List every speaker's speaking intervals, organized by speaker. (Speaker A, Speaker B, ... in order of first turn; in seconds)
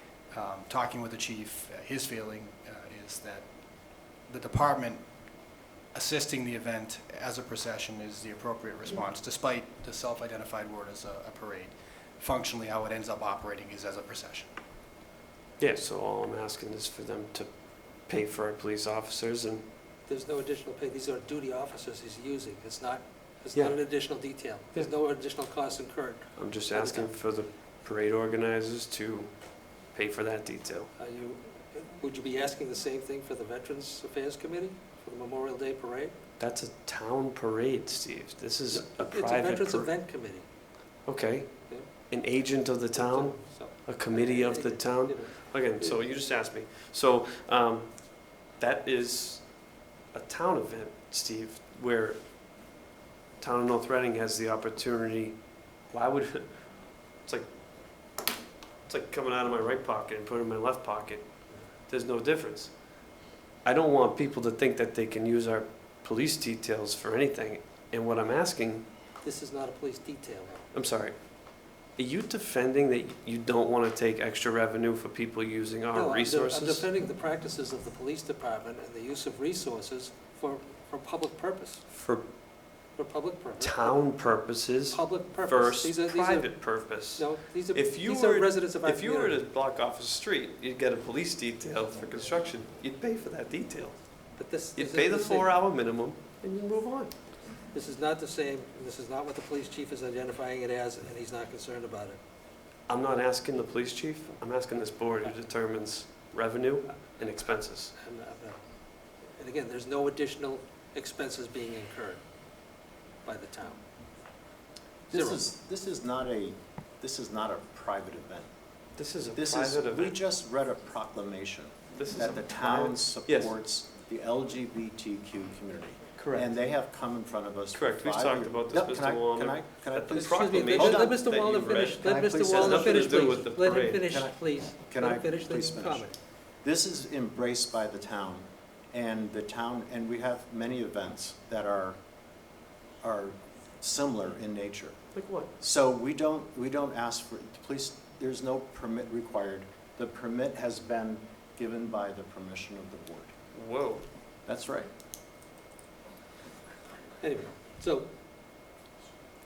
Speaker A: 0.3-3.5, 4.3-5.0, 5.9-14.5
Speaker B: 15.6-19.6, 23.5-24.9, 26.4-30.9, 36.4-39.9, 41.1-52.2, 53.4-57.5, 58.9-61.2, 61.9-62.7, 63.6-68.8, 70.7-76.8, 81.9-82.2, 83.6-94.0, 94.8-97.2, 102.9-107.9, 119.0-120.1, 122.0-123.5, 126.2-126.5, 127.7-134.1, 145.1-145.5, 153.5-154.0
Speaker C: 20.1-27.1, 31.0-36.1, 38.7-40.5, 42.9-46.0, 69.2-70.7, 75.9-81.8, 83.0-84.0, 84.9-89.4, 94.4-95.5, 97.7-102.2, 108.0-108.6, 109.3-112.2, 113.2-113.8, 115.1-115.4, 130.1-136.2, 157.2-158.1
Speaker D: 115.1-118.5, 119.3-131.3, 132.0-133.4, 134.0-136.1, 136.6-142.0, 143.0-145.0, 145.6-153.3, 154.4-154.9